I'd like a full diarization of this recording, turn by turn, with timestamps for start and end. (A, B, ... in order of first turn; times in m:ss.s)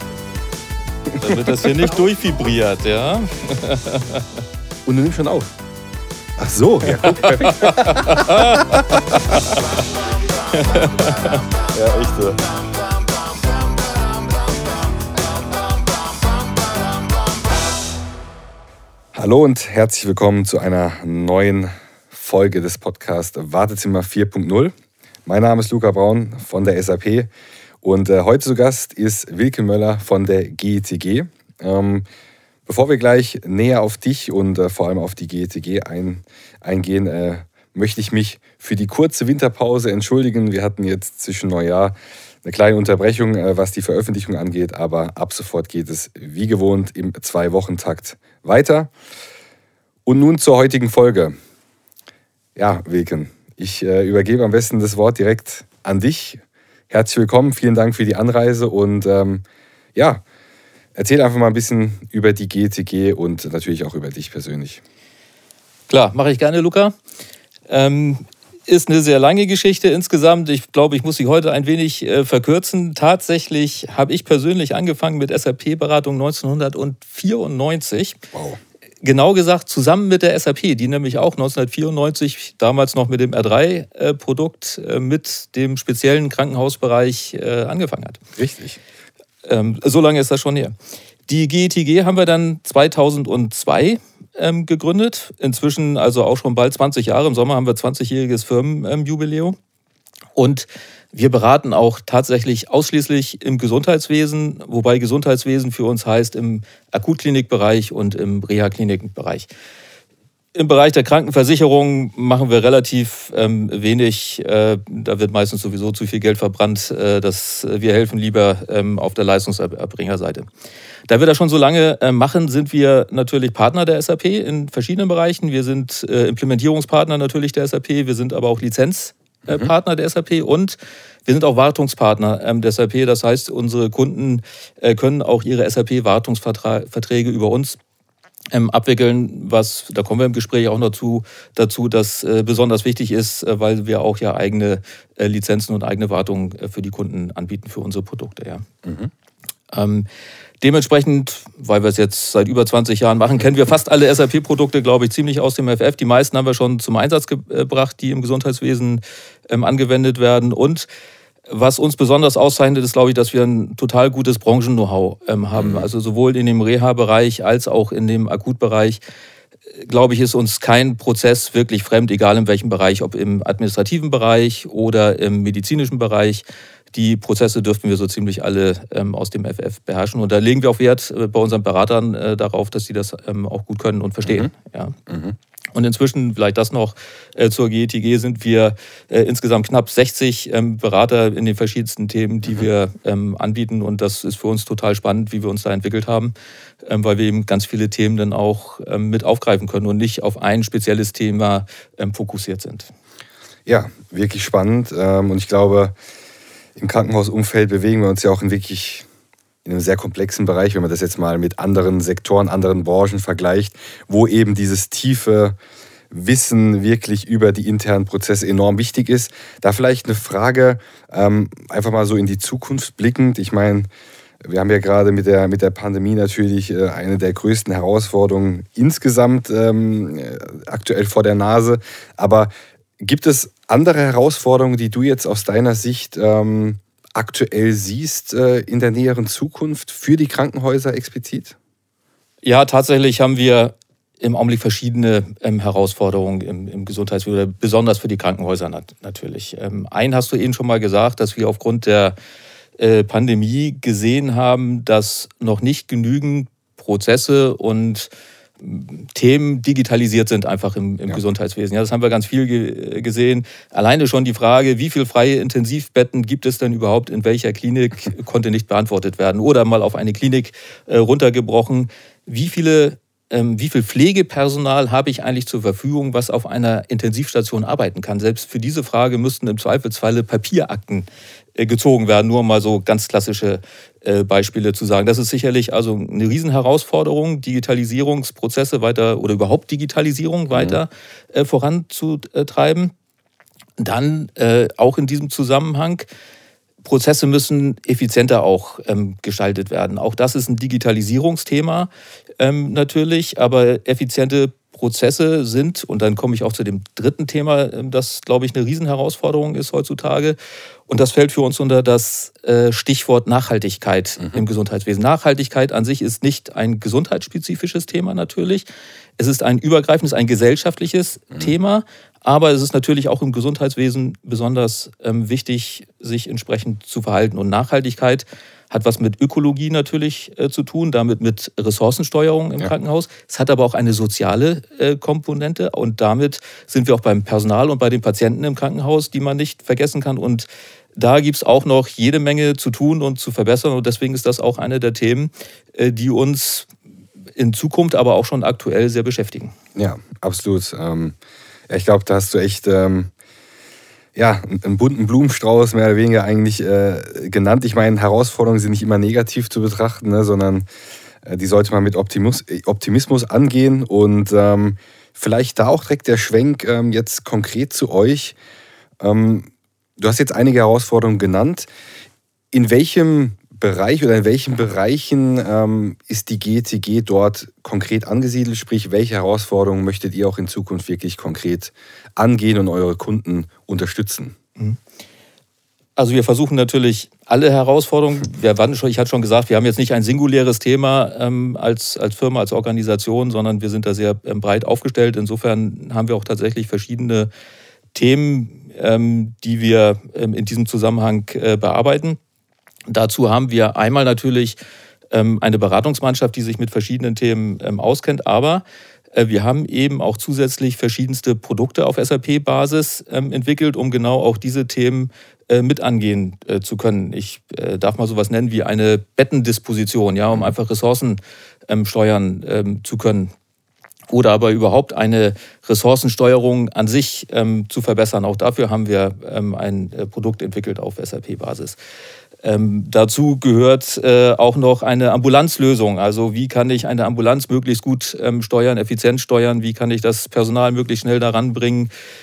0:01.1-0:01.6 A
0:01.2-0:04.2 B
0:04.8-0:05.5 A
0:06.4-0:09.6 A
0:06.8-0:09.8 B
0:10.5-0:11.4 B
0:11.7-0:12.5 A
0:19.1-0:24.7 A
0:25.2-0:27.3 A
0:27.8-0:32.0 A
0:32.6-0:48.9 A
0:50.0-0:51.3 A
0:52.6-0:59.4 A
1:00.0-1:00.2 A
1:01.0-1:04.8 A
1:05.9-1:06.9 B
1:07.7-1:18.2 B
1:18.3-1:18.6 A
1:19.0-1:28.2 B
1:28.4-1:28.8 A
1:29.4-1:30.7 B
1:31.3-1:39.6 B
1:40.4-1:49.5 B
1:50.5-2:00.5 B
2:01.1-2:17.8 B
2:09.4-2:09.7 A
2:18.5-2:28.6 B
2:28.8-2:29.1 A
2:29.7-2:30.0 B
2:30.6-2:40.9 B
2:41.5-2:49.0 B
2:45.5-2:45.9 A
2:49.8-3:05.0 B
3:04.2-3:04.5 A
3:05.1-3:05.4 A
3:05.7-3:16.3 B
3:16.8-3:22.9 B
3:23.7-3:25.9 A
3:26.8-3:29.0 A
3:29.6-3:35.6 A
3:36.1-3:43.9 A
3:44.4-4:01.6 A
4:02.4-4:12.1 B
4:12.8-4:18.1 B
4:18.6-4:52.9 B
4:50.5-4:50.8 A
4:53.8-4:56.0 B
4:56.8-5:10.4 B
5:10.9-5:18.6 B
5:19.2-5:46.7 B
5:47.4-5:49.5 B
5:49.8-5:51.2 A
5:51.7-5:53.1 A
5:54.1-6:00.6 A
6:01.2-6:08.4 A
6:09.0-6:11.7 A
6:12.5-6:24.3 A
6:26.0-6:37.3 B
6:37.9-6:42.2 B
6:42.9-6:44.6 B
6:45.1-7:03.3 B
7:04.1-7:11.8 B
7:12.4-7:21.9 B